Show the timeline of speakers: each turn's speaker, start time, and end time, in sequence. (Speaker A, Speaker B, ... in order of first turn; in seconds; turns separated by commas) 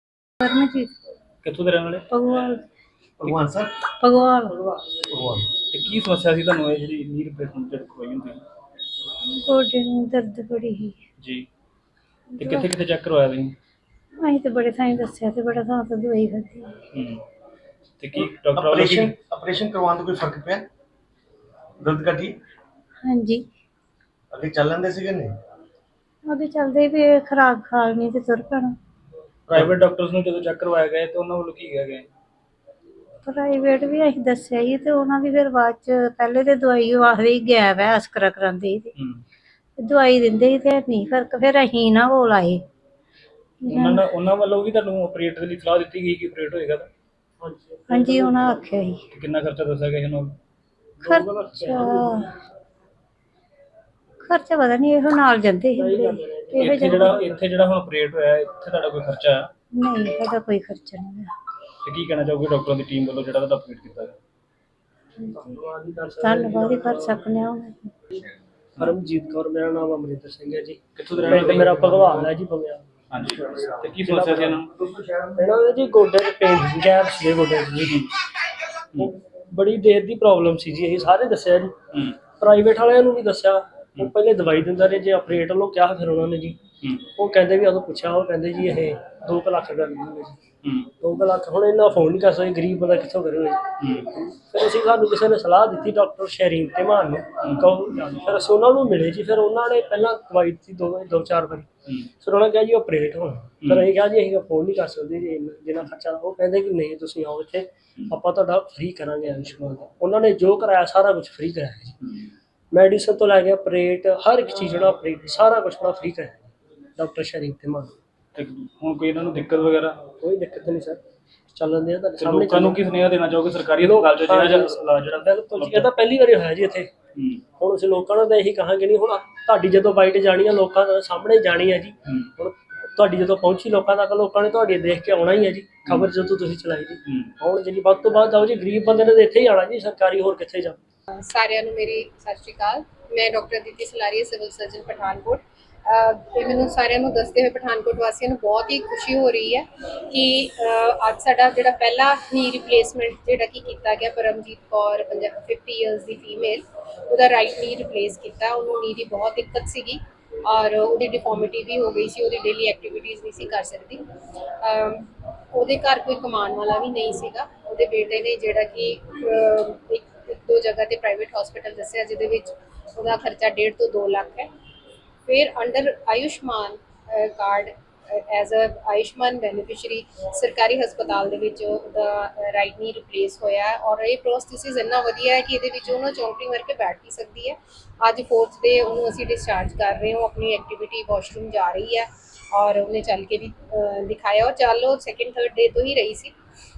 Speaker A: 0.4-0.9, Speaker B: 1.4-2.1, Speaker A: 2.1-2.6, Speaker C: 3.2-3.7, Speaker A: 4.0-4.6, Speaker C: 5.1-5.5, Speaker B: 5.7-8.4, Speaker A: 9.4-11.0, Speaker B: 11.2-11.5, Speaker B: 12.4-13.6, Speaker A: 12.4-12.7, Speaker A: 14.2-16.7, Speaker B: 16.9-17.2, Speaker B: 18.0-19.1, Speaker C: 18.2-20.7, Speaker C: 21.8-22.4, Speaker A: 23.1-23.4, Speaker C: 24.3-25.3, Speaker A: 26.3-28.8, Speaker B: 29.5-32.1, Speaker A: 33.3-38.9, Speaker A: 39.8-42.6, Speaker A: 43.7-44.0, Speaker B: 43.7-46.9, Speaker D: 47.4-48.5, Speaker A: 47.9-49.0, Speaker B: 49.1-50.4, Speaker D: 51.0-52.3, Speaker A: 51.1-52.3, Speaker A: 54.3-57.2, Speaker D: 55.8-57.4, Speaker B: 56.6-59.5, Speaker A: 59.8-61.3, Speaker B: 61.9-64.2, Speaker D: 65.3-67.3, Speaker A: 66.2-67.9, Speaker D: 68.8-72.8, Speaker B: 71.0-72.3, Speaker B: 73.1-74.7, Speaker D: 73.6-74.6, Speaker D: 75.3-77.9, Speaker B: 77.8-78.1, Speaker D: 79.0-81.8, Speaker D: 82.4-86.6, Speaker D: 87.1-90.4, Speaker B: 90.6-90.9, Speaker D: 91.0-101.7, Speaker B: 93.8-94.1, Speaker B: 97.4-97.8, Speaker D: 102.2-112.0, Speaker B: 103.6-104.0, Speaker B: 112.0-112.3, Speaker D: 112.7-117.9, Speaker B: 118.3-120.1, Speaker D: 120.2-121.0, Speaker D: 121.5-122.8, Speaker B: 122.2-125.9, Speaker D: 123.8-126.9, Speaker B: 127.2-127.4, Speaker D: 127.6-140.8, Speaker B: 135.8-136.2, Speaker E: 141.2-164.0, Speaker E: 164.6-174.5, Speaker E: 175.3-196.3